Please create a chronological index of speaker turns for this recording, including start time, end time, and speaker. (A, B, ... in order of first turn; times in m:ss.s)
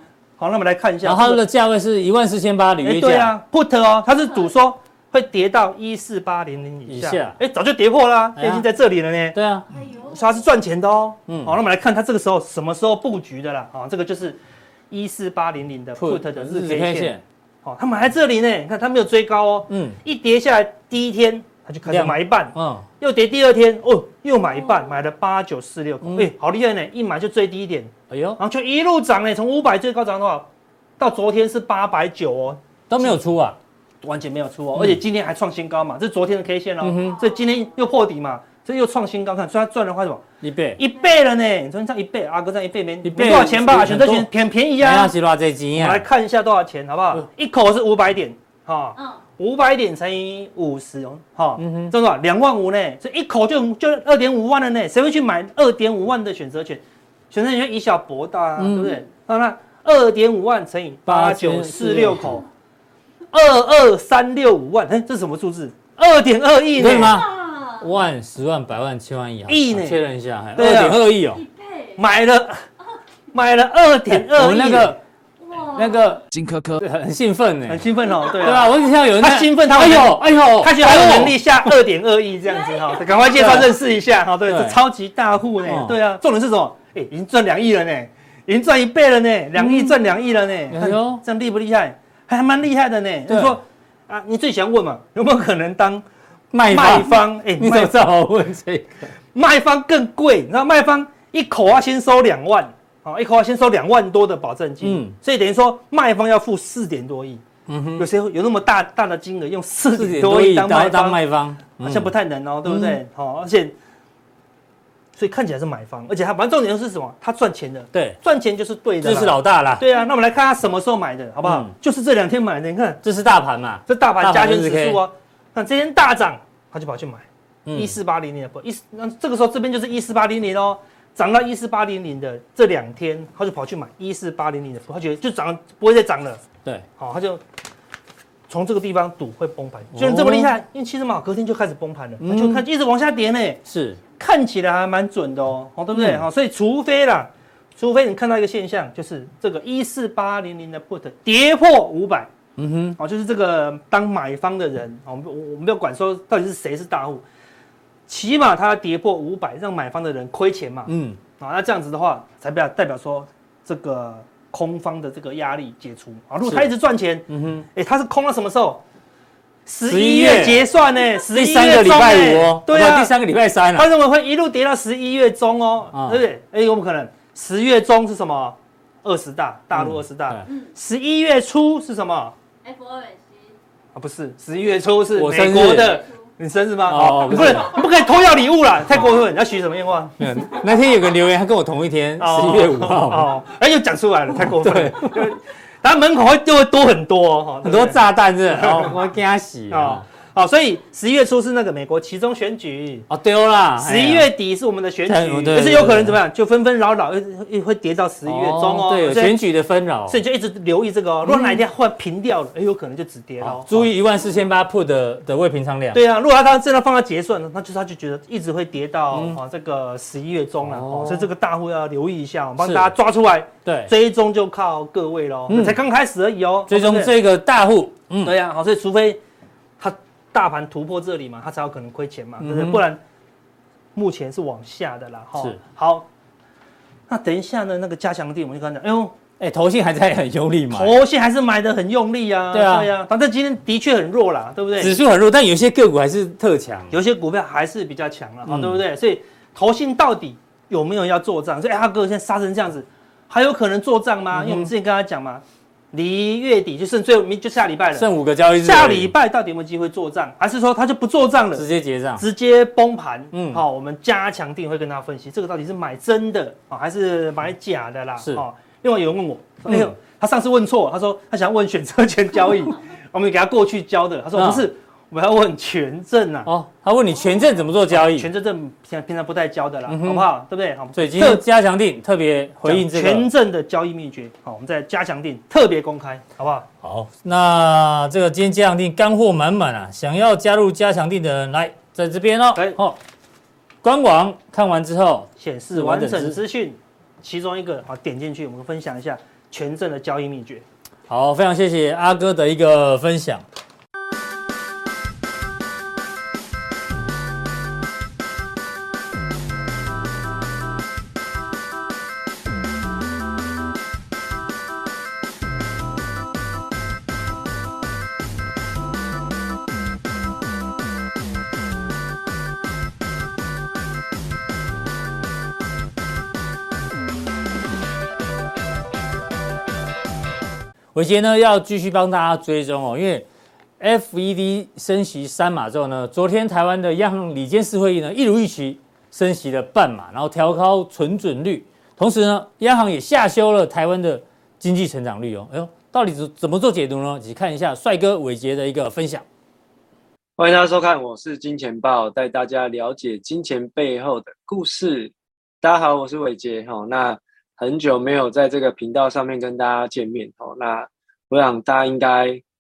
0:00.4-0:01.4 A
0:01.0-0:03.3 B
0:02.8-0:14.4 A
0:06.9-0:07.4 B
0:08.4-0:08.7 B
0:09.3-0:09.7 B
0:09.7-0:10.1 C
0:11.3-0:11.5 B
0:14.9-0:17.1 A
0:16.0-0:17.2 B
0:17.6-0:33.2 A
0:19.7-0:20.0 B
0:21.9-0:22.9 B
0:26.0-0:26.3 B
0:28.1-0:28.4 B
0:32.9-0:33.6 B
0:34.0-0:40.2 A
0:34.8-0:35.0 B
0:36.8-0:37.2 B
0:40.4-0:40.8 B
0:40.8-0:45.1 A
0:43.0-0:46.0 B
0:45.8-1:02.4 A
0:51.6-0:52.0 B
0:58.6-0:59.0 B
1:01.1-1:02.4 B
1:03.3-1:07.2 A
1:06.8-1:11.4 B
1:07.1-1:07.9 C
1:09.5-1:10.0 A
1:10.6-1:11.0 A
1:11.3-1:12.0 C
1:12.0-1:12.6 A
1:13.3-1:15.0 A
1:14.1-1:15.0 B
1:15.4-1:16.2 C
1:15.6-1:21.7 B
1:17.7-1:36.0 A
1:22.5-1:23.1 C
1:23.4-1:23.7 B
1:24.5-1:24.8 B
1:25.6-1:26.0 B
1:29.6-1:30.0 B
1:30.7-1:31.2 B
1:33.3-1:33.6 B
1:36.5-1:39.1 B
1:36.7-1:38.0 A
1:39.3-1:47.4 A
1:44.8-1:45.2 B
1:47.7-1:48.1 B
1:48.0-1:51.2 A
1:50.0-1:52.1 B
1:51.8-1:53.7 A
1:52.7-1:53.0 B
1:55.2-2:03.0 A
1:59.0-1:59.8 B
2:01.4-2:01.7 B
2:03.0-2:05.0 B
2:03.9-2:16.4 A
2:07.7-2:08.0 B
2:17.0-2:17.4 A
2:18.5-2:23.6 A
2:19.9-2:20.5 B
2:22.2-2:22.6 B
2:23.7-2:24.0 B
2:24.2-2:32.3 A
2:25.9-2:26.2 B
2:32.6-2:33.0 B
2:33.0-2:37.2 A
2:38.1-2:48.8 A
2:40.9-2:41.2 B
2:46.4-2:46.7 B
2:47.3-2:47.6 B
2:49.7-2:53.2 A
2:49.8-2:50.7 B
2:51.3-2:53.9 B
2:53.7-3:02.4 A
2:55.9-2:56.2 B
2:59.7-3:00.4 B
3:02.6-3:03.6 C
3:04.0-3:10.6 A
3:05.2-3:06.0 B
3:06.9-3:07.8 B
3:10.2-3:13.3 B
3:12.2-3:19.0 A
3:14.4-3:15.3 B
3:17.6-3:20.0 B
3:19.7-3:23.1 A
3:23.1-3:24.3 B
3:23.8-3:29.4 A
3:25.1-3:26.2 B
3:28.2-3:30.2 B
3:30.1-3:33.9 A
3:31.3-3:31.6 B
3:33.4-3:36.0 B
3:35.9-3:47.1 A
3:39.1-3:39.4 B
3:40.6-3:41.3 B
3:42.6-3:42.9 B
3:43.6-3:43.9 B
3:45.5-3:45.8 B
3:46.7-3:48.4 B
3:48.2-3:49.2 A
3:49.8-3:53.0 A
3:52.4-3:52.8 B
3:54.0-3:56.1 A
3:57.1-3:59.2 A
3:59.4-4:01.0 B
4:00.7-4:05.0 A
4:02.5-4:02.9 B
4:04.8-4:07.0 B
4:06.9-4:18.1 A
4:08.5-4:08.8 B
4:14.3-4:14.7 B
4:18.0-4:19.1 B
4:18.6-4:36.5 A
4:21.6-4:22.2 B
4:23.3-4:23.6 B
4:29.7-4:29.9 B
4:34.4-4:34.6 B
4:36.5-4:38.3 B
4:37.9-4:41.4 A
4:39.9-4:40.3 B
4:40.9-4:43.3 B
4:42.6-4:46.7 A
4:46.8-4:53.0 B
4:53.8-4:56.4 B
4:55.4-5:00.6 A
5:01.1-5:03.4 B
5:30.9-5:33.3 B
5:33.8-5:49.2 B
5:50.4-6:02.4 D